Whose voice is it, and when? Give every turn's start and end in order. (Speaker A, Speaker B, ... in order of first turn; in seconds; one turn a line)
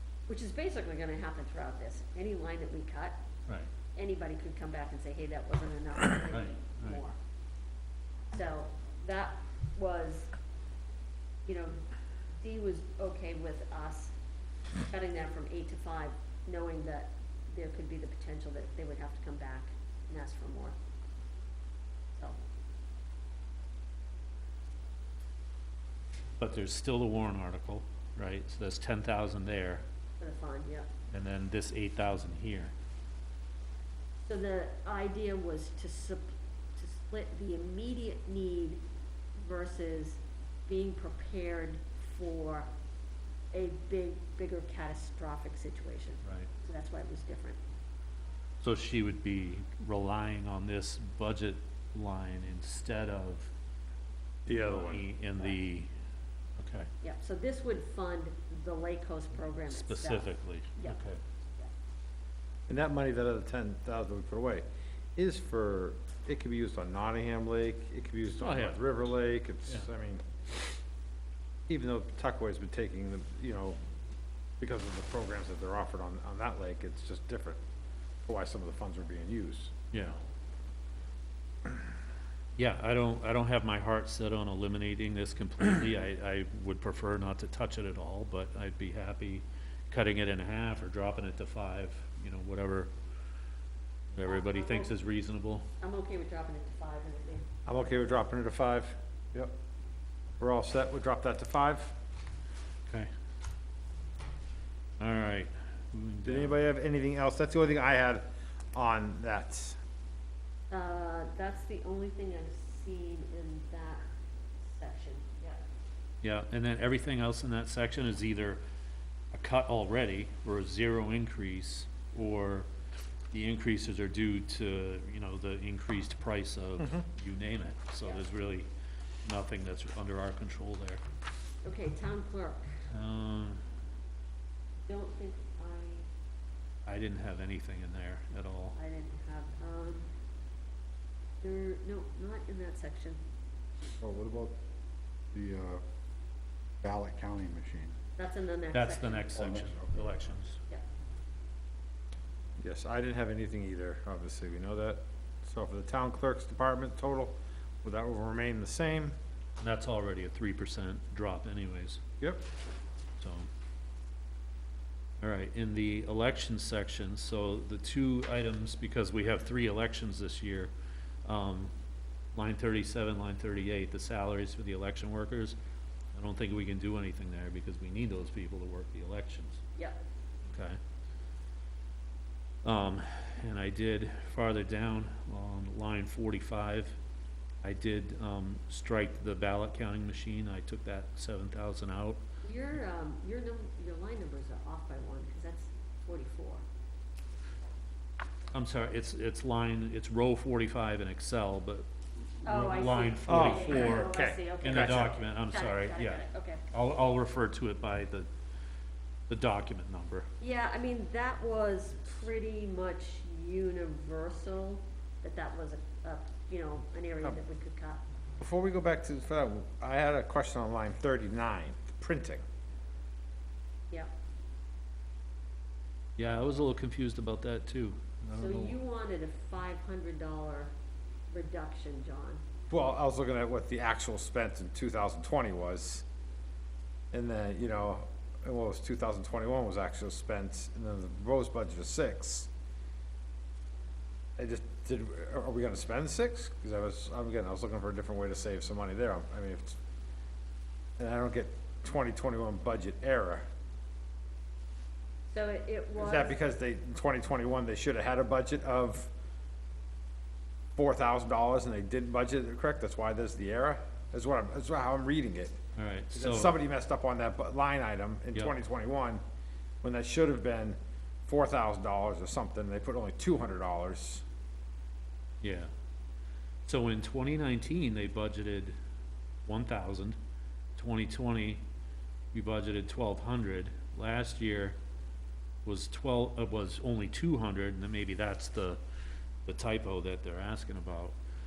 Speaker A: 0.3-3.2
Speaker A: 4.0-7.2
Speaker B: 6.3-7.0
Speaker A: 8.3-10.3
Speaker A: 11.4-11.8
Speaker A: 12.3-14.1
Speaker A: 14.9-20.8
Speaker B: 26.4-29.8
Speaker A: 30.2-30.9
Speaker B: 31.1-32.7
Speaker A: 34.3-38.8
Speaker A: 39.4-42.7
Speaker A: 43.5-47.6
Speaker B: 46.2-46.5
Speaker B: 48.6-53.5
Speaker C: 54.5-55.0
Speaker B: 54.5-55.9
Speaker B: 56.6-56.9
Speaker A: 57.0-61.0
Speaker B: 59.7-61.2
Speaker C: 62.7-64.7
Speaker C: 65.2-70.2
Speaker B: 68.4-68.8
Speaker C: 71.7-73.8
Speaker C: 74.6-77.6
Speaker C: 78.3-79.7
Speaker B: 79.9-80.2
Speaker B: 82.6-92.9
Speaker B: 94.1-95.7
Speaker A: 94.2-94.9
Speaker A: 95.8-97.5
Speaker C: 97.7-99.5
Speaker C: 100.4-101.9
Speaker B: 105.0-106.6
Speaker C: 106.2-109.8
Speaker A: 110.7-114.0
Speaker A: 114.6-115.6
Speaker B: 116.2-118.6
Speaker B: 119.3-122.7
Speaker B: 123.3-128.7
Speaker B: 129.2-131.0
Speaker A: 131.6-132.7
Speaker B: 132.9-133.6
Speaker A: 134.9-136.1
Speaker B: 136.8-138.8
Speaker A: 138.8-140.1
Speaker A: 141.4-143.2
Speaker D: 144.0-144.6
Speaker D: 145.3-145.8
Speaker D: 146.8-147.9
Speaker A: 148.2-149.4
Speaker B: 148.7-150.6
Speaker D: 149.3-150.1
Speaker C: 152.6-159.2
Speaker B: 159.6-162.0
Speaker B: 163.2-163.5
Speaker B: 165.2-170.7
Speaker B: 171.2-171.7
Speaker B: 172.3-175.6
Speaker B: 176.1-179.6
Speaker B: 180.5-180.8
Speaker B: 182.6-187.0
Speaker B: 187.6-192.2
Speaker A: 192.4-196.6
Speaker B: 198.5-201.9
Speaker B: 202.4-208.3
Speaker A: 202.4-206.6
Speaker C: 203.2-205.2
Speaker B: 209.3-210.3
Speaker A: 210.4-218.0
Speaker C: 218.4-222.4
Speaker B: 226.2-228.8
Speaker A: 228.3-230.7
Speaker A: 231.3-232.4
Speaker C: 232.7-236.1
Speaker C: 237.1-242.5
Speaker C: 244.4-249.8
Speaker C: 251.0-253.4
Speaker A: 255.3-256.4
Speaker C: 255.9-259.1
Speaker C: 260.8-265.6
Speaker B: 265.8-266.6
Speaker C: 266.1-269.2
Speaker C: 269.8-274.2
Speaker B: 275.4-275.7
Speaker B: 276.7-278.8
Speaker B: 279.5-280.2
Speaker B: 280.8-281.6
Speaker B: 282.3-284.8
Speaker B: 285.6-288.8
Speaker B: 289.4-291.1